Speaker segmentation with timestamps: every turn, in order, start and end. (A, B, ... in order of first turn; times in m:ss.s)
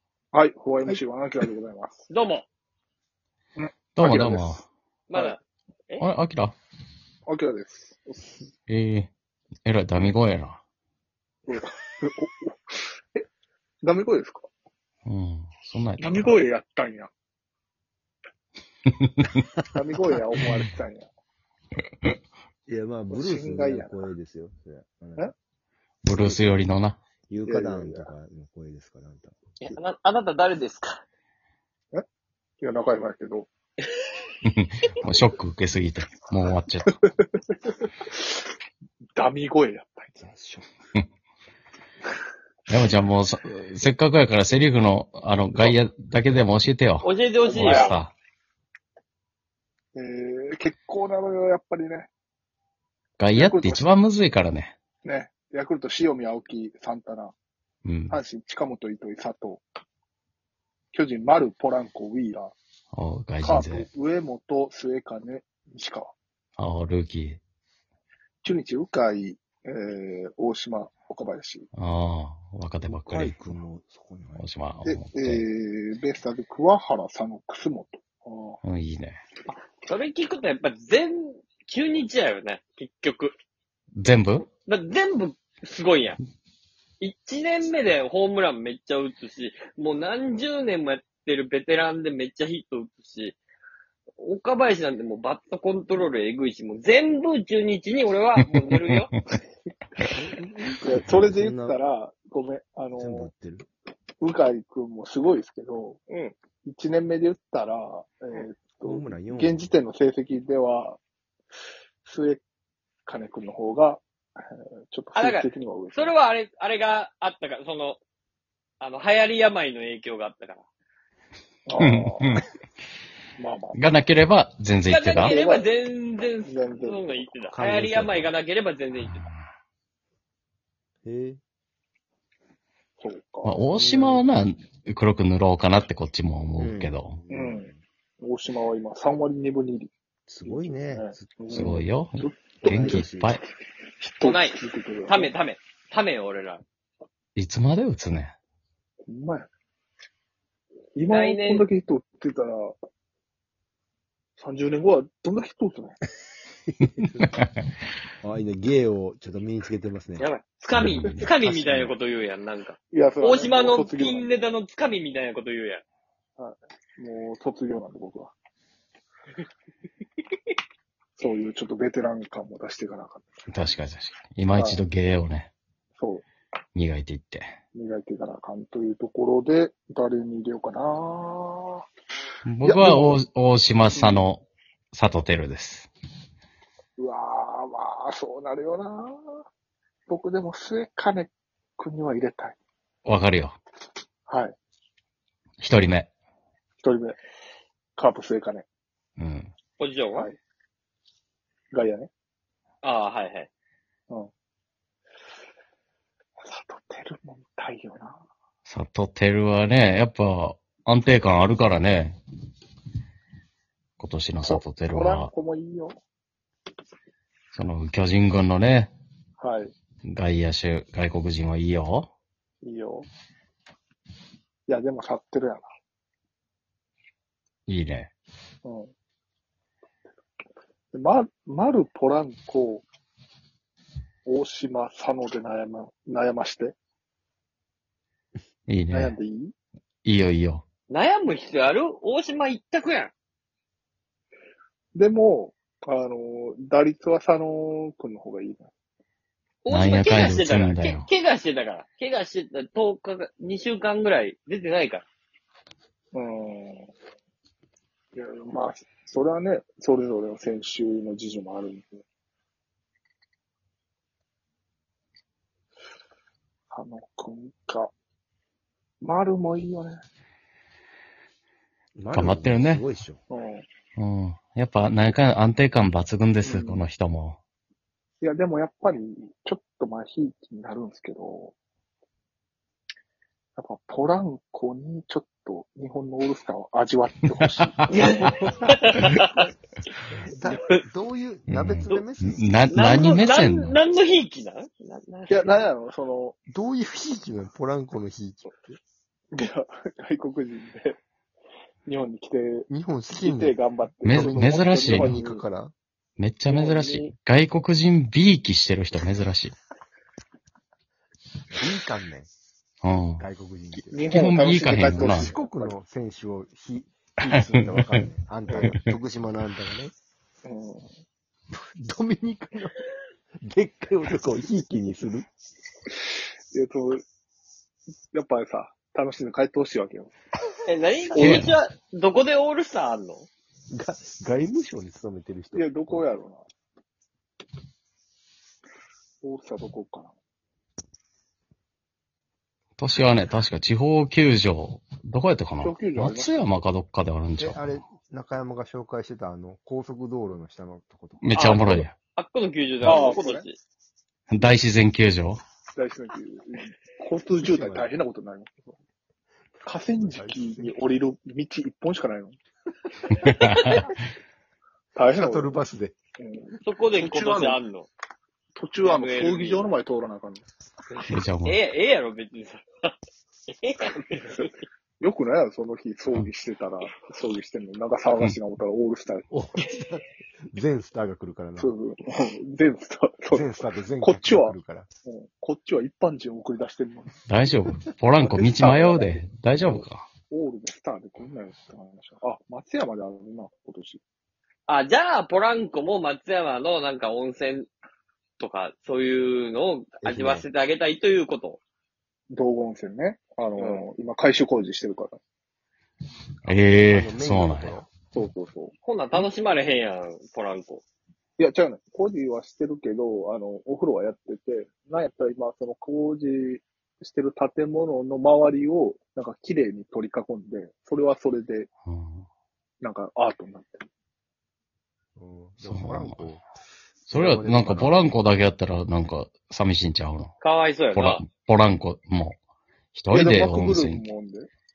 0:00.3-0:02.1 A
0:02.1-0:02.5 B
0:03.6-0:04.6 A
0:04.0-0:04.7 C
0:05.1-0:06.0 B
0:06.0-0:06.6 C
0:07.3-0:08.4 A
0:08.7-0:09.1 C
0:09.6-0:10.6 C
0:11.5-0:13.2 A
0:13.8-0:14.5 A
0:15.1-0:16.4 C
0:16.0-0:17.1 A
0:19.0-0:19.3 C
0:19.7-0:21.1 A
0:22.7-0:25.3 D
0:23.1-0:24.1 A
0:26.0-0:27.0 C
0:26.1-0:26.7 D
0:27.3-0:29.4 D
0:27.4-0:28.1 A
0:29.6-0:31.0 B
0:32.6-0:33.5 A
0:34.5-0:37.0 C
0:36.9-0:38.4 A
0:39.2-0:40.1 A
0:40.2-0:40.7 D
0:42.7-0:48.1 C
0:47.0-0:48.0 B
0:47.5-0:48.0 A
0:49.9-0:52.1 A
0:53.2-0:54.8 C
0:53.3-0:53.9 A
0:55.0-0:57.4 A
0:57.8-0:58.2 C
0:58.1-0:59.6 A
1:00.9-1:02.6 A
1:02.9-1:03.9 C
1:03.4-1:06.1 A
1:06.6-1:07.4 C
1:08.4-1:11.7 A
1:11.8-1:13.4 C
1:12.9-1:14.4 D
1:14.4-1:15.4 C
1:14.8-1:18.6 A
1:18.6-1:19.2 C
1:19.8-1:23.3 B
1:24.0-1:24.5 C
1:24.5-1:26.2 B
1:27.0-1:33.4 B
1:34.2-1:39.1 B
1:38.4-1:39.2 C
1:40.1-1:41.8 D
1:40.8-1:43.3 A
1:43.0-1:43.7 D
1:44.2-1:46.0 A
1:46.1-1:46.4 B
1:46.6-1:51.0 A
1:48.8-1:49.7 D
1:52.0-1:52.4 A
1:53.1-1:56.1 A
1:55.2-1:58.0 B
1:58.8-2:00.6 B
2:01.7-2:02.4 A
2:01.8-2:02.4 C
2:03.4-2:03.8 A
2:03.7-2:05.4 C
2:04.8-2:09.2 B
2:05.1-2:05.7 A
2:06.4-2:07.4 A
2:07.5-2:08.3 D
2:09.0-2:09.4 C
2:11.0-2:11.4 D
2:13.0-2:13.6 A
2:13.4-2:17.2 C
2:13.7-2:14.2 D
2:16.6-2:17.8 D
2:17.3-2:17.7 A
2:18.2-2:19.9 A
2:20.3-2:21.8 D
2:20.4-2:23.1 A
2:21.5-2:23.4 C
2:22.6-2:23.4 D
2:24.0-2:25.3 A
2:24.2-2:26.6 B
2:27.4-2:28.4 C
2:29.1-2:29.5 A
2:31.0-2:32.8 A
2:31.1-2:31.7 B
2:34.4-2:36.0 A
2:36.8-2:37.5 C
2:37.0-2:37.3 D
2:38.2-2:40.3 D
2:40.2-2:45.8 B
2:40.7-2:41.3 C
2:40.8-2:41.9 D
2:42.9-2:44.4 A
2:46.4-2:48.3 A
2:51.2-2:53.3 A
2:53.5-2:55.5 C
2:54.6-2:54.8 A
2:56.0-2:56.3 A
2:56.8-2:57.5 C
2:57.7-3:01.8 A
3:02.5-3:05.9 C
3:02.6-3:03.2 A
3:04.0-3:04.2 A
3:07.0-3:09.2 A
3:10.1-3:12.6 A
3:13.0-3:13.6 C
3:14.3-3:14.6 A
3:15.6-3:16.1 C
3:16.8-3:17.2 A
3:18.0-3:18.7 A
3:19.2-3:19.5 C
3:19.8-3:20.3 B
3:21.7-3:22.1 A
3:22.8-3:23.5 B
3:26.4-3:28.2 A
3:28.7-3:32.2 C
3:34.0-3:35.3 C
3:34.4-3:35.9 A
3:37.5-3:38.9 C
3:39.4-3:39.7 A
3:40.1-3:42.1 C
3:42.6-3:43.1 A
3:44.7-3:45.7 A
3:47.7-3:48.1 C
3:48.6-3:48.9 A
3:50.9-3:52.9 A
3:54.3-3:56.8 A
3:58.7-3:59.1 C
3:58.9-3:59.5 A
4:00.0-4:00.6 C
4:00.9-4:03.1 B
4:05.0-4:08.7 A
4:09.6-4:15.1 B
4:09.7-4:11.1 C
4:16.1-4:16.9 A
4:18.1-4:22.0 A
4:26.7-4:27.9 A
4:29.0-4:30.0 A
4:32.0-4:33.2 D
4:32.1-4:32.8 C
4:33.3-4:33.7 A
4:34.0-4:37.4 C
4:36.4-4:36.8 A
4:38.2-4:41.6 A
4:43.6-4:48.4 A
4:47.9-4:49.4 B
4:48.0-4:48.7 D
4:50.2-4:53.0 D
4:51.5-4:53.8 C
4:52.7-4:55.6 B
4:55.3-4:56.4 A
4:56.5-4:58.8 D
4:59.3-5:01.0 A
5:01.9-5:05.4 A
5:02.7-5:03.6 D
5:04.0-5:05.2 C
5:04.1-5:05.7 D
5:06.2-5:09.5 C
5:06.5-5:07.1 A
5:11.5-5:12.3 D
5:12.8-5:13.2 C
5:13.2-5:14.1 D
5:13.9-5:15.8 A
5:14.1-5:15.3 C
5:14.9-5:19.9 D
5:17.2-5:18.1 C
5:18.5-5:18.7 A
5:20.4-5:20.9 A
5:21.5-5:22.8 D
5:23.4-5:25.3 D
5:26.5-5:27.0 A
5:28.1-5:30.1 A
5:30.7-5:33.3 B
5:31.1-5:31.5 A
5:31.2-5:31.6 C
5:33.7-5:36.0 D
5:35.6-5:36.5 A
5:39.2-5:40.1 A
5:42.8-5:47.8 C
5:45.6-5:46.5 A
5:47.4-5:51.7 D
5:51.2-5:51.9 C
5:51.3-5:53.6 B
5:52.8-5:53.1 C
5:52.8-5:53.5 A
5:54.3-5:55.4 C
5:55.8-5:58.8 A
5:57.4-5:57.9 D
5:59.6-6:02.4 A
6:00.0-6:00.8 D
6:03.2-6:03.8 C
6:03.3-6:03.8 B
6:05.0-6:05.6 A
6:05.1-6:06.0 D
6:06.2-6:07.6 A
6:06.6-6:07.9 B
6:08.6-6:10.4 A
6:08.8-6:09.7 B
6:10.9-6:12.9 B
6:11.1-6:11.6 C
6:13.5-6:14.5 B
6:14.1-6:14.5 A
6:15.0-6:19.3 A
6:19.3-6:21.7 D
6:21.6-6:24.6 A
6:23.3-6:24.9 D
6:25.1-6:27.2 A
6:27.3-6:30.1 C
6:28.3-6:34.0 A
6:34.7-6:37.7 B
6:38.4-6:41.6 B
6:40.0-6:40.5 D
6:42.3-6:45.2 A
6:43.6-6:43.8 B
6:46.5-6:47.8 C
6:46.8-6:47.9 D
6:48.1-6:49.3 A
6:48.8-6:50.8 B
6:51.4-7:01.7 A
7:01.9-7:02.3 C
7:02.8-7:03.9 A
7:05.2-7:06.4 D
7:05.6-7:06.3 C
7:07.1-7:08.0 D
7:07.1-7:10.3 C
7:10.4-7:11.2 B
7:10.9-7:12.4 C
7:12.9-7:14.0 C
7:13.1-7:14.5 A